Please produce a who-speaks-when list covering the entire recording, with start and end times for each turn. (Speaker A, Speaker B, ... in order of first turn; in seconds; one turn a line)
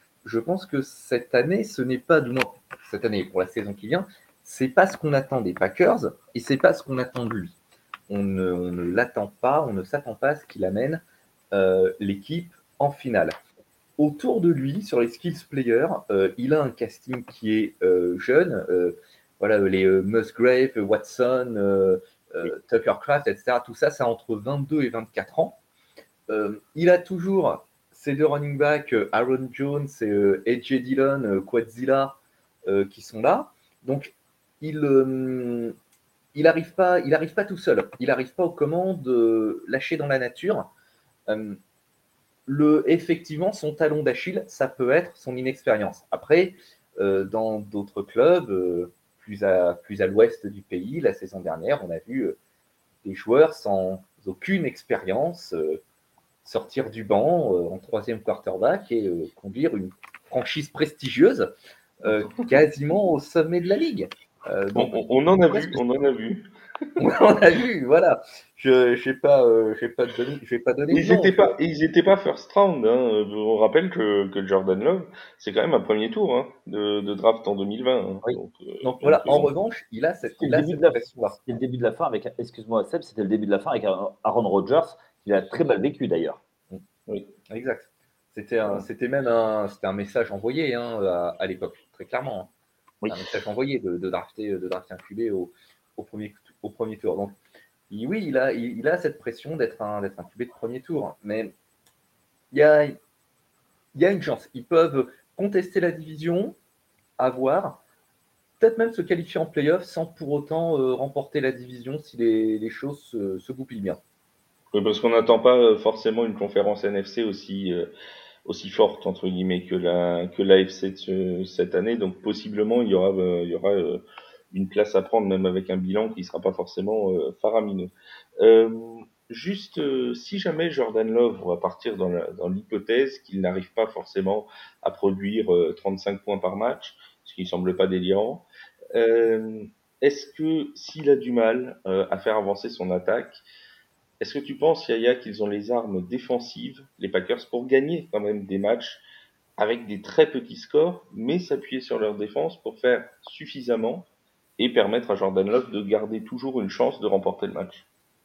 Speaker A: 0.2-7.5
Speaker A: 8.1-11.0
Speaker A: 11.5-13.3
Speaker A: 14.0-25.6
Speaker A: 26.3-35.7
Speaker A: 36.3-40.7
Speaker A: 41.3-41.6
Speaker A: 42.5-52.4
Speaker A: 53.0-55.8
Speaker A: 56.4-61.5
Speaker A: 62.0-64.9
Speaker B: 62.1-62.5
Speaker B: 64.7-66.5
Speaker A: 65.5-65.8
Speaker A: 67.0-71.5
Speaker B: 70.9-79.5
Speaker A: 78.8-81.4
Speaker C: 80.4-86.4
Speaker A: 87.5-92.5
Speaker A: 93.1-97.3
Speaker A: 97.9-101.5
Speaker A: 102.5-103.0
Speaker A: 103.9-106.5
Speaker A: 107.2-107.8
Speaker A: 108.6-114.0
Speaker B: 114.7-117.9
Speaker B: 118.5-143.4
Speaker B: 144.2-149.0
Speaker B: 149.6-157.8